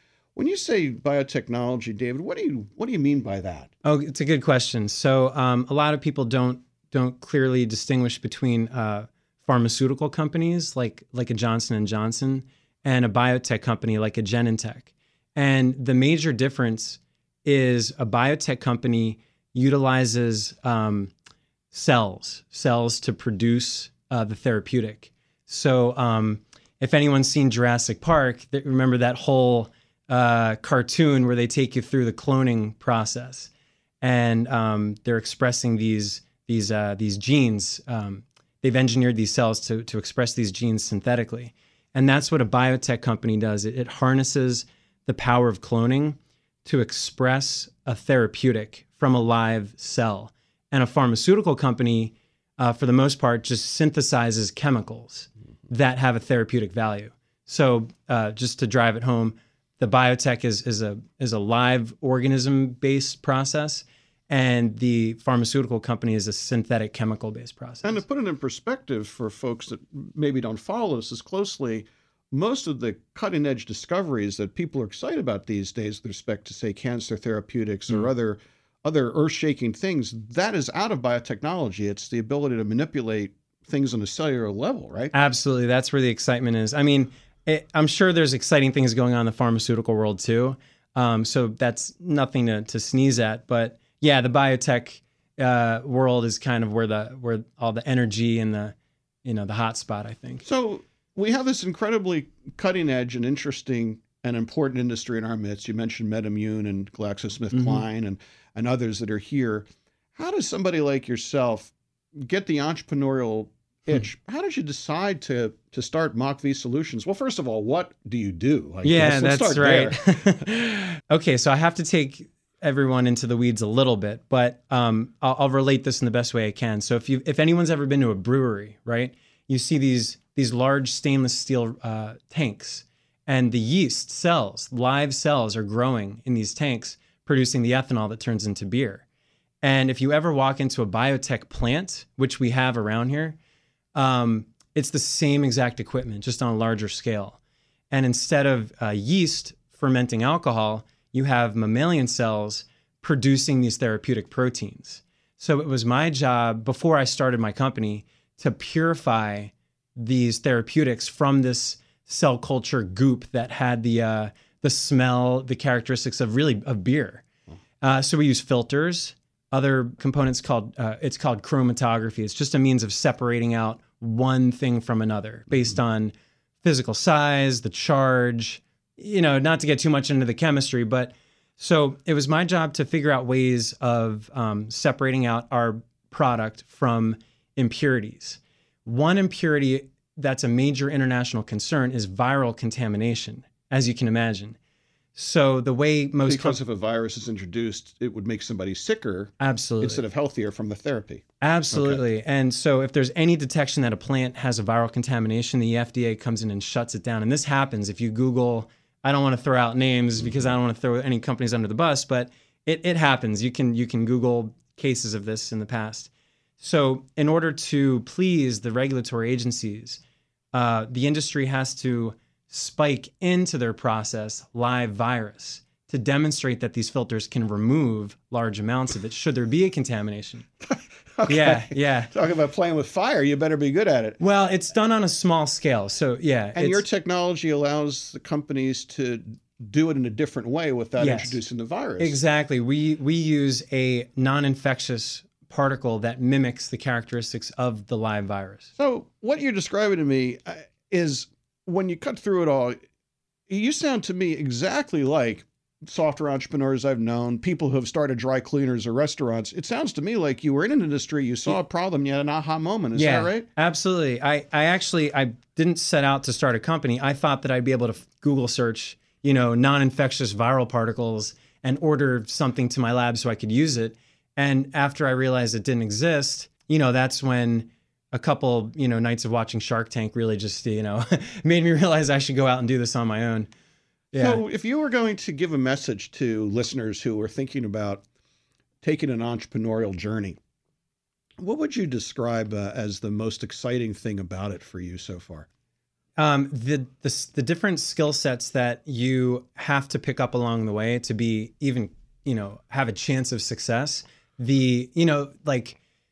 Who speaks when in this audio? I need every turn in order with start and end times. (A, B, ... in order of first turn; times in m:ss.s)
0:00.4-0:03.7 A
0:03.8-0:21.1 B
0:21.7-0:33.5 B
0:34.0-1:08.0 B
1:07.8-1:25.1 A
1:25.1-1:40.4 B
1:40.4-2:00.5 A
1:47.5-1:47.8 B
1:58.8-2:19.0 B
2:19.6-2:23.4 B
2:24.0-2:27.4 B
2:27.9-2:47.2 B
2:47.8-3:14.6 B
3:15.2-3:16.6 B
3:16.3-3:22.0 A
3:19.4-3:20.0 B
3:21.4-3:40.0 B
3:40.5-3:50.5 B
3:51.2-3:54.2 A
3:51.3-3:52.1 B
3:54.2-3:56.8 B
3:56.6-4:02.2 A
4:01.0-4:01.4 B
4:02.0-4:08.7 B
4:08.8-4:12.8 A
4:13.5-4:23.5 A
4:23.0-4:43.5 B
4:44.1-4:44.4 B
4:44.2-4:48.0 A
4:48.8-4:50.4 A
4:51.4-4:55.5 A
4:56.2-5:05.8 B